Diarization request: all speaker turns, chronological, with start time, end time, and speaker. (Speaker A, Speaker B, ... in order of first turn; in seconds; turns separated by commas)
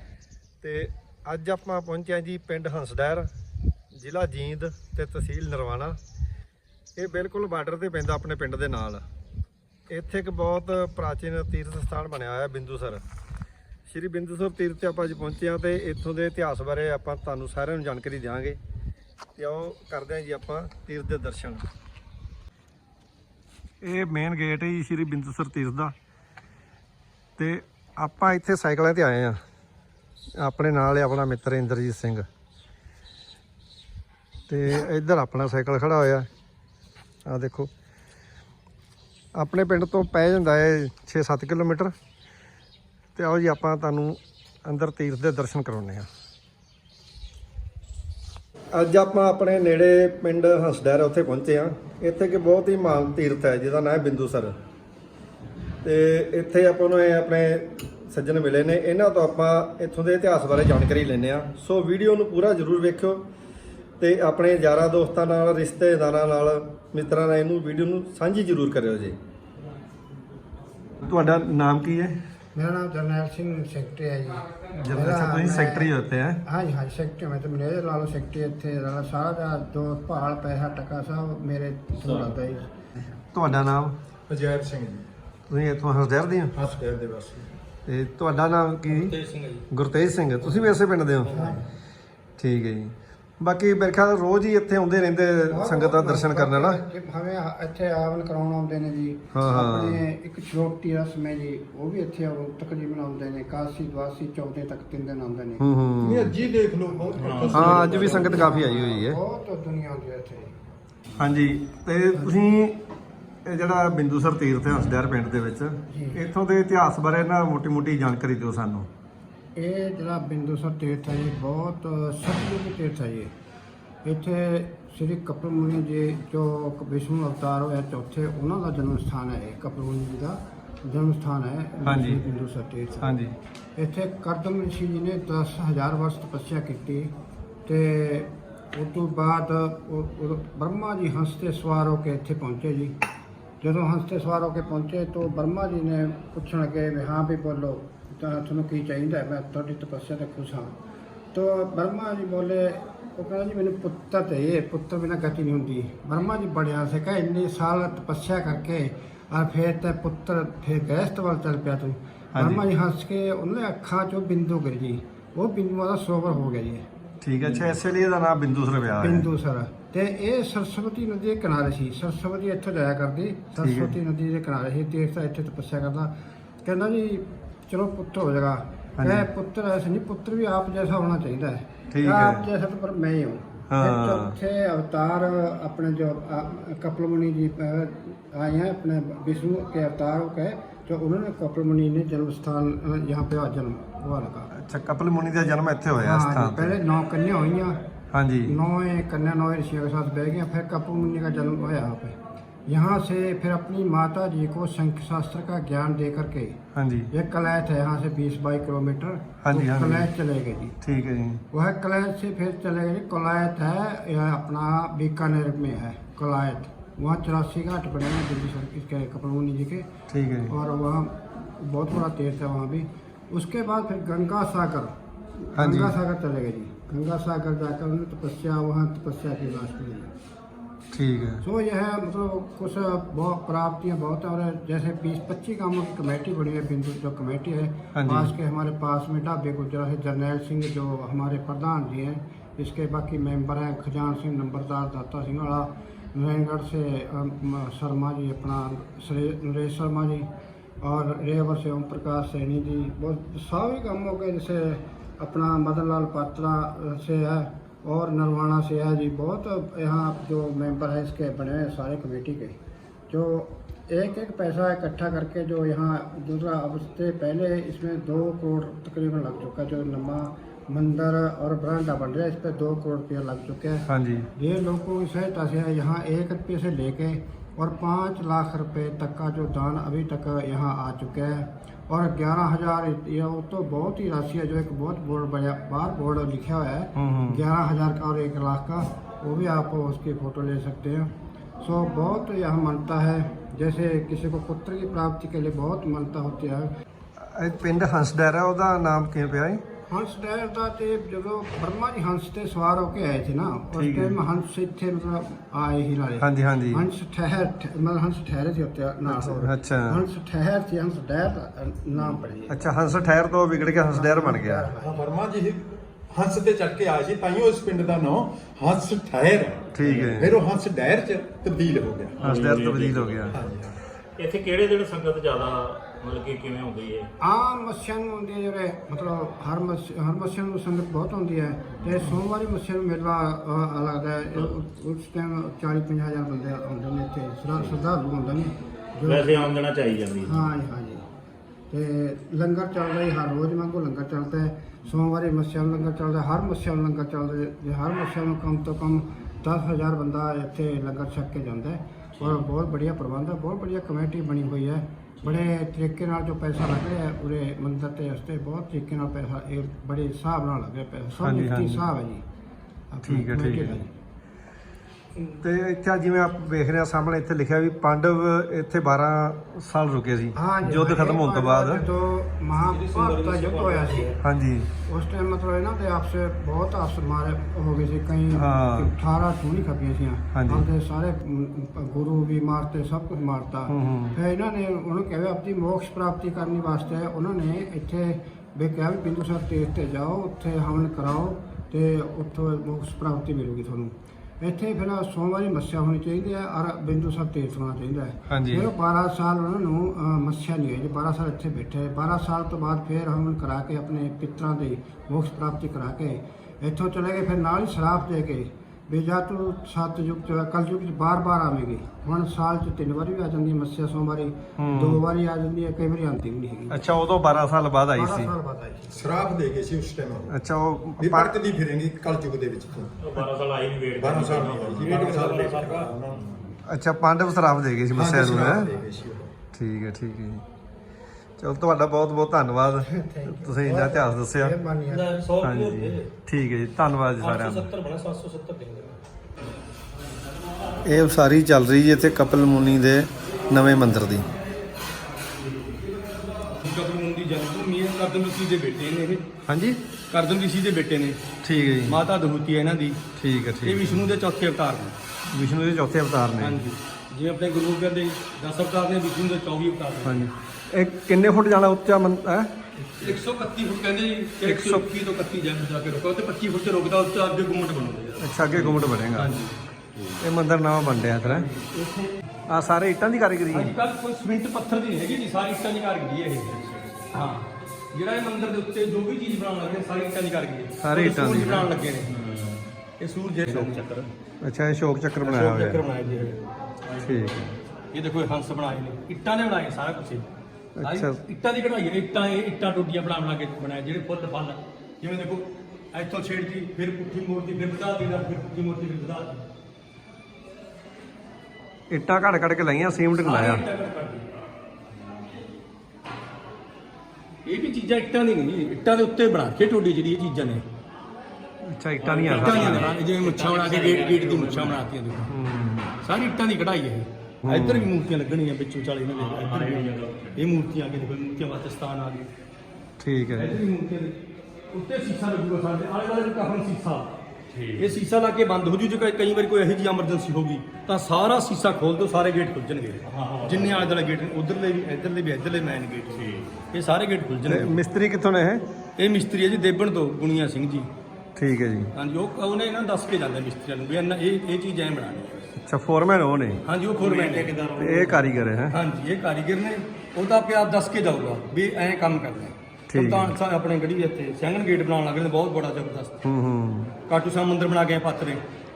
Speaker A: 0.6-3.3, Speaker A: 3.9-6.0, Speaker A: 7.0-9.0, Speaker A: 9.9-13.0, Speaker A: 13.9-18.6, Speaker A: 19.4-21.6, Speaker A: 23.8-25.9, Speaker A: 27.4-29.4, Speaker A: 30.4-32.2, Speaker A: 34.5-36.3, Speaker A: 37.2-37.7, Speaker A: 39.4-41.9, Speaker A: 43.1-46.1, Speaker A: 48.7-54.5, Speaker A: 55.8-63.2, Speaker A: 64.0-69.2, Speaker A: 71.0-72.1, Speaker B: 72.5-75.9, Speaker A: 74.8-76.4, Speaker B: 76.4-82.7, Speaker C: 82.0-82.3, Speaker A: 83.3-83.9, Speaker D: 84.3-85.1, Speaker A: 85.5-86.5, Speaker D: 86.5-87.6, Speaker A: 87.8-89.1, Speaker E: 88.9-89.6, Speaker A: 89.7-91.4, Speaker B: 91.3-91.6, Speaker D: 91.3-91.6, Speaker A: 92.4-96.8, Speaker B: 95.5-105.6, Speaker A: 99.3-100.0, Speaker A: 105.6-106.3, Speaker D: 106.0-108.4, Speaker B: 106.9-110.5, Speaker C: 107.3-108.0, Speaker A: 107.5-109.2, Speaker A: 111.2-112.8, Speaker A: 113.4-118.9, Speaker B: 115.9-116.2, Speaker B: 119.5-123.3, Speaker B: 124.0-133.0, Speaker A: 131.8-132.2, Speaker A: 133.0-133.3, Speaker B: 133.8-137.1, Speaker B: 137.7-142.9, Speaker B: 143.6-150.7, Speaker B: 151.3-166.8, Speaker A: 162.3-162.6, Speaker A: 167.2-169.3, Speaker B: 169.0-176.1, Speaker A: 173.6-173.9, Speaker B: 176.6-194.5, Speaker A: 179.0-179.3, Speaker A: 181.9-182.4, Speaker A: 183.7-184.3, Speaker A: 194.6-196.8, Speaker B: 196.0-197.8, Speaker A: 198.1-198.6, Speaker B: 198.4-206.6, Speaker A: 206.7-207.1, Speaker B: 207.1-210.8, Speaker A: 209.4-210.1, Speaker A: 210.8-211.4, Speaker B: 211.5-219.9, Speaker A: 220.1-220.6, Speaker B: 220.5-230.1, Speaker A: 225.6-225.9, Speaker A: 230.9-231.4, Speaker B: 231.4-250.3, Speaker A: 237.9-238.3, Speaker B: 250.8-262.6, Speaker B: 263.1-296.7, Speaker A: 273.9-274.3, Speaker A: 286.9-287.4, Speaker A: 297.2-299.6, Speaker B: 299.9-312.6, Speaker A: 303.7-304.2, Speaker A: 306.2-306.9, Speaker A: 309.1-310.0, Speaker A: 312.5-314.7, Speaker B: 313.9-315.1, Speaker D: 314.8-322.3, Speaker A: 319.7-320.4, Speaker C: 319.8-320.2, Speaker C: 322.2-323.4, Speaker A: 322.2-323.4, Speaker D: 323.3-323.8, Speaker C: 324.2-327.1, Speaker B: 327.2-339.4, Speaker C: 339.0-340.5, Speaker B: 340.2-341.1, Speaker B: 341.7-362.2, Speaker A: 361.2-361.8, Speaker B: 362.9-363.9, Speaker A: 363.0-363.8, Speaker A: 365.4-371.8, Speaker B: 370.4-374.1, Speaker E: 372.6-374.2, Speaker A: 374.2-374.7, Speaker B: 374.9-416.8, Speaker A: 378.3-378.9, Speaker A: 380.3-380.7, Speaker A: 383.7-384.2, Speaker A: 398.3-398.7, Speaker A: 414.6-415.0, Speaker A: 416.7-418.3, Speaker B: 417.9-419.0, Speaker D: 418.9-420.3, Speaker A: 420.3-421.4, Speaker D: 421.0-423.3, Speaker C: 423.0-426.5, Speaker D: 424.0-426.3, Speaker E: 424.7-425.9, Speaker A: 426.6-428.7, Speaker D: 427.9-429.3, Speaker A: 429.5-430.4, Speaker A: 431.4-434.5, Speaker B: 432.9-435.1, Speaker E: 434.9-436.1, Speaker A: 435.4-437.7, Speaker E: 437.2-438.9, Speaker A: 440.8-444.2, Speaker E: 446.6-449.2, Speaker A: 449.4-449.8, Speaker E: 450.1-451.2, Speaker A: 451.4-452.0, Speaker E: 451.9-453.0, Speaker A: 453.2-454.0, Speaker E: 453.6-455.0, Speaker A: 455.3-456.6, Speaker E: 456.4-460.2, Speaker A: 460.0-463.1, Speaker E: 463.0-469.5, Speaker A: 464.4-464.8, Speaker A: 468.2-469.3, Speaker C: 469.9-470.2, Speaker A: 470.2-471.4, Speaker E: 471.2-472.1, Speaker A: 472.5-473.7, Speaker E: 473.5-476.6, Speaker C: 476.5-477.1, Speaker E: 477.1-482.1, Speaker A: 480.8-481.7, Speaker C: 482.1-482.7, Speaker E: 483.0-484.1, Speaker A: 483.5-483.8, Speaker A: 484.4-485.8, Speaker E: 485.2-486.4, Speaker C: 486.9-487.2, Speaker A: 487.0-487.5, Speaker E: 487.9-490.3, Speaker A: 490.8-491.2, Speaker E: 490.8-499.4, Speaker A: 501.9-503.6, Speaker E: 503.2-504.2, Speaker E: 507.4-510.6, Speaker A: 511.6-512.9, Speaker C: 512.0-514.8, Speaker E: 512.2-515.3, Speaker A: 515.3-515.9, Speaker E: 516.0-522.3, Speaker A: 517.4-517.9, Speaker C: 519.1-520.4, Speaker A: 523.0-523.6, Speaker E: 523.4-524.2, Speaker E: 524.7-527.1, Speaker C: 527.5-528.0, Speaker E: 527.8-537.8, Speaker C: 533.0-533.9, Speaker C: 536.1-536.5, Speaker A: 537.5-538.6, Speaker E: 539.0-540.9, Speaker A: 541.4-541.9, Speaker E: 541.9-545.5, Speaker A: 545.6-546.6, Speaker E: 546.6-547.5, Speaker C: 547.0-548.4, Speaker A: 547.8-548.8, Speaker E: 548.7-556.2, Speaker A: 552.9-553.3, Speaker A: 556.2-556.9, Speaker E: 557.1-558.4